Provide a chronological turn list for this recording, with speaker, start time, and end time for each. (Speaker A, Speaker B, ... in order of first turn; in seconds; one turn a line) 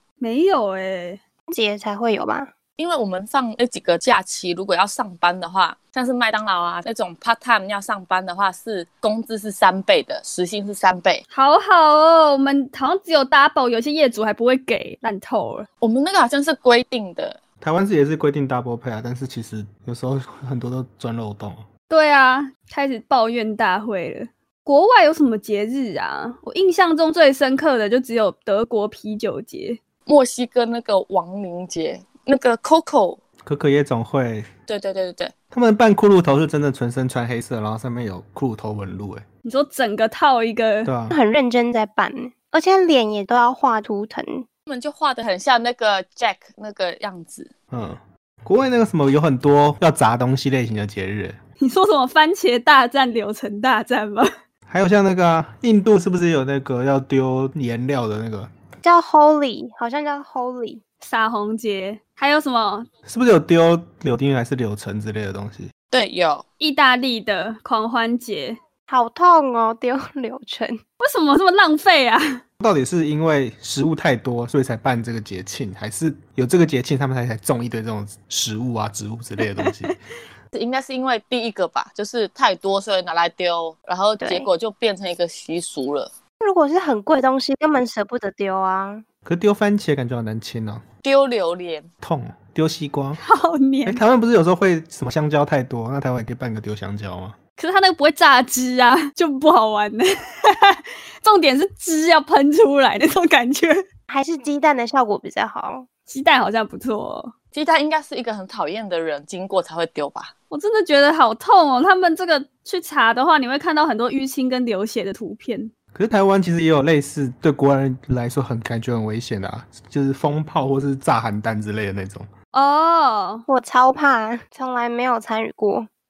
Speaker A: 0.2-1.2
Speaker B: 1.5-2.5
Speaker C: 2.8-11.2
Speaker A: 11.3-15.7
Speaker C: 15.8-17.4
Speaker D: 17.6-21.6
Speaker A: 21.9-29.8
Speaker C: 30.1-33.2
Speaker D: 33.4-34.5
Speaker C: 34.7-35.3
Speaker D: 35.5-39.2
Speaker A: 39.4-40.9
Speaker D: 40.8-41.1
Speaker B: 41.1-44.5
Speaker C: 44.7-47.5
Speaker D: 47.7-51.4
Speaker A: 51.6-54.3
Speaker D: 54.7-58.5
Speaker B: 58.8-60.8
Speaker A: 61.0-62.9
Speaker D: 63.0-65.7
Speaker C: 65.9-66.4
Speaker A: 66.6-68.6
Speaker B: 68.9-70.8
Speaker A: 71.0-72.4
Speaker D: 72.6-80.0
Speaker A: 79.4-79.7
Speaker C: 80.5-86.1
Speaker B: 84.2-84.5
Speaker B: 86.4-89.0
Speaker D: 89.2-90.8
Speaker C: 91.0-91.9
Speaker D: 92.0-93.2
Speaker A: 93.2-94.0
Speaker D: 93.8-97.3
Speaker A: 97.6-103.8
Speaker B: 104.1-105.9
Speaker A: 106.1-107.3
Speaker C: 107.5-110.3
Speaker A: 110.5-115.7
Speaker D: 115.9-122.3
Speaker A: 122.5-123.5
Speaker B: 123.5-125.9